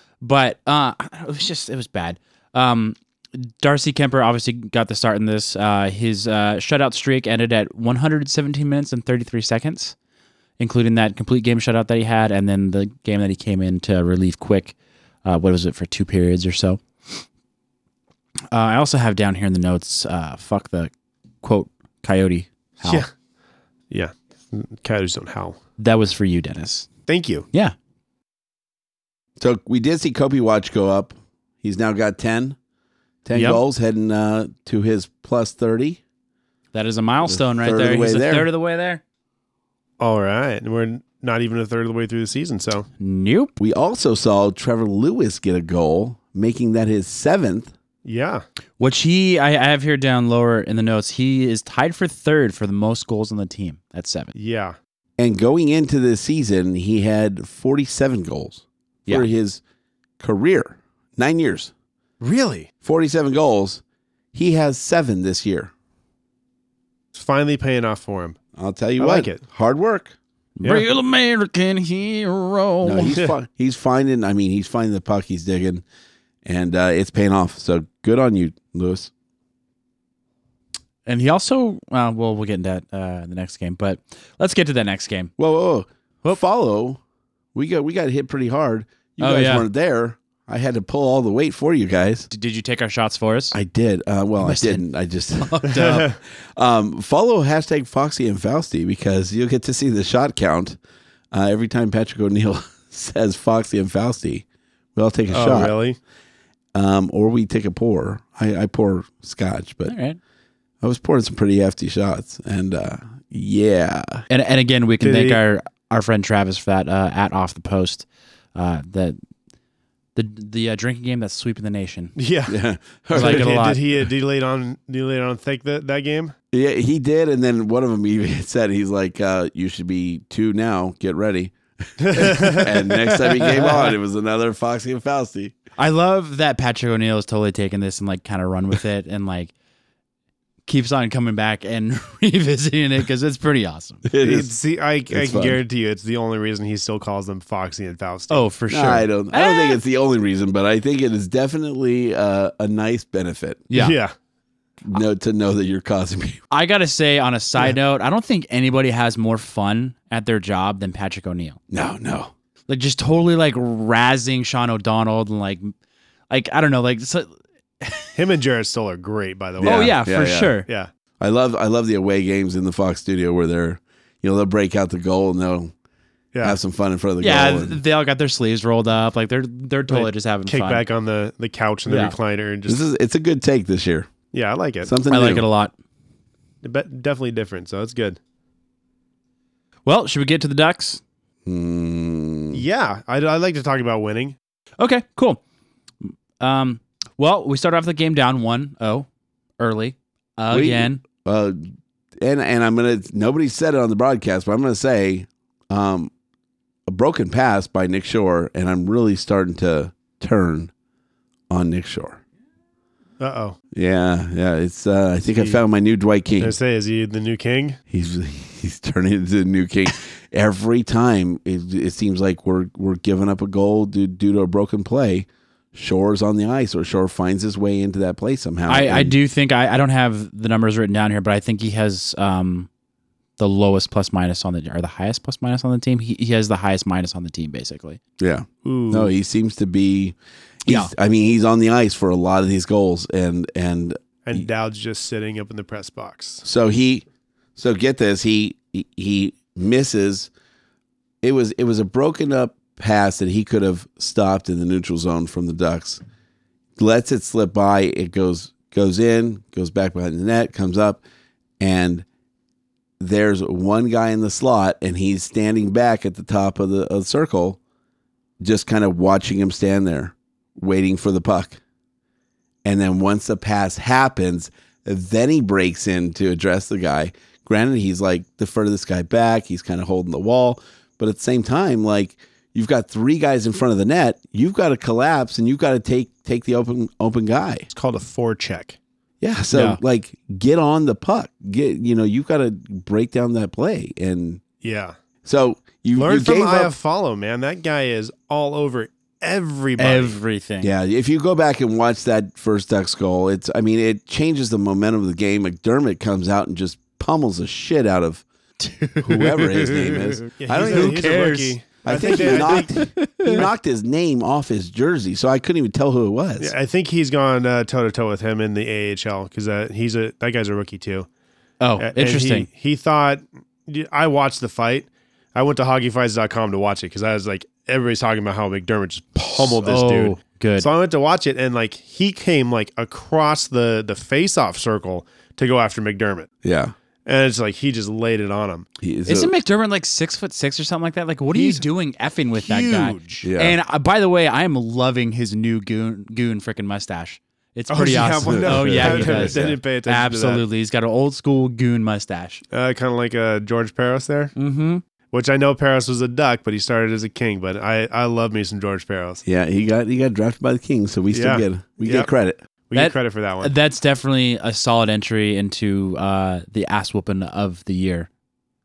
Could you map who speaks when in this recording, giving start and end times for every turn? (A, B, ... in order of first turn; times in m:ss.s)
0:00.2-0:10.0 A
0:10.6-0:14.7 A
0:15.2-0:17.2 A
0:18.5-0:20.9 A
0:21.4-0:23.1 A
0:23.9-0:25.6 B
0:25.8-0:26.9 A
0:27.1-0:27.5 B
0:29.4-0:32.6 C
0:33.2-0:36.0 C
0:33.3-0:33.6 A
0:36.7-0:39.0 A
0:37.3-0:38.5 C
0:40.0-0:42.9 B
0:43.0-0:43.5 A
0:43.6-0:47.7 C
0:48.0-0:48.4 B
0:48.8-0:54.3 A
0:54.3-0:54.8 B
0:55.2-0:59.6 C
1:00.2-1:01.7 C
1:02.2-1:02.7 B
1:02.8-1:03.8 C
1:04.3-1:05.7 C
1:07.1-1:08.4 B
1:08.6-1:10.2 C
1:09.0-1:09.4 B
1:10.6-1:13.2 A
1:12.8-1:15.8 C
1:16.4-1:19.1 C
1:21.1-1:25.3 A
1:25.4-1:27.0 C
1:27.5-1:32.3 C
1:29.2-1:29.7 A
1:32.3-1:33.6 A
1:33.5-1:35.8 C
1:34.4-1:34.8 A
1:35.4-1:36.1 A
1:35.8-1:36.2 B
1:36.5-1:40.8 C
1:41.3-1:45.8 C
1:45.3-1:46.0 B
1:46.7-1:50.0 C
1:49.9-1:50.2 A
1:50.8-1:54.2 C
1:54.3-1:59.2 A
1:55.0-1:55.4 B
2:00.2-2:02.1 A
2:02.2-2:02.6 B
2:02.5-2:03.6 C
2:03.1-2:06.3 B
2:03.1-2:03.8 A
2:06.5-2:15.6 C
2:12.0-2:13.0 B
2:15.8-2:19.5 A
2:20.7-2:24.0 A
2:24.1-2:24.5 C
2:24.2-2:28.5 B
2:25.1-2:25.6 C
2:28.3-2:29.8 A
2:28.7-2:33.7 C
2:33.7-2:34.0 A
2:33.7-2:34.1 B
2:34.8-2:36.4 C
2:36.5-2:41.6 A
2:41.7-2:42.3 C
2:42.7-2:45.7 A
2:46.3-2:48.2 A
2:48.2-2:50.0 B
2:49.6-2:50.6 C
2:49.6-2:50.7 A
2:51.2-2:55.7 C
2:56.4-2:57.8 C
2:57.2-3:00.8 A
2:59.9-3:02.8 B
3:01.9-3:02.2 A
3:02.7-3:04.1 C
3:04.3-3:04.9 B
3:04.8-3:05.4 C
3:05.1-3:05.7 A
3:06.6-3:08.2 B
3:09.8-3:11.0 A
3:11.4-3:12.6 C
3:12.5-3:14.4 B
3:14.8-3:15.4 A
3:16.0-3:19.1 A
3:19.6-3:21.0 A
3:20.5-3:21.6 C
3:22.2-3:26.1 C
3:26.9-3:30.7 C
3:31.5-3:32.2 C
3:33.2-3:33.6 B
3:33.7-3:36.6 C
3:35.4-3:35.6 B
3:36.4-3:37.8 B
3:37.9-3:49.1 C
3:48.7-3:52.7 A
3:53.4-3:58.0 A
3:58.2-4:04.5 C
3:58.6-3:59.1 B
4:00.7-4:00.9 A
4:04.2-4:06.4 B
4:06.4-4:07.0 C
4:07.6-4:10.3 C
4:11.2-4:16.0 C
4:16.8-4:21.0 C
4:21.6-4:22.0 C
4:23.0-4:27.6 C
4:28.4-4:31.6 C
4:32.6-4:47.7 C
4:47.7-4:48.8 B
4:49.2-4:54.4 C
4:49.5-4:49.8 A
4:54.6-4:55.0 B
4:55.2-4:56.7 C
4:56.0-5:00.2 B
4:59.8-5:00.7 A
5:00.6-5:08.2 C
5:08.6-5:13.4 A
5:09.0-5:11.1 C
5:10.3-5:13.4 B
5:11.8-5:16.5 C
5:16.4-5:21.1 B
5:21.6-5:22.5 A
5:21.8-5:36.3 B
5:29.6-5:30.7 A
5:36.4-5:36.8 C
5:37.1-5:38.7 B
5:38.8-5:39.3 C
5:39.1-5:52.4 A
5:41.3-5:41.6 B
5:42.4-5:43.2 B
5:43.2-5:43.6 C
5:47.7-5:50.4 B
5:48.4-5:49.6 C
5:52.5-5:54.3 B
5:54.4-5:54.8 A
5:55.1-5:59.2 B
5:59.2-6:02.4 C
6:01.1-6:02.1 B
6:02.7-6:03.5 B
6:02.8-6:08.1 A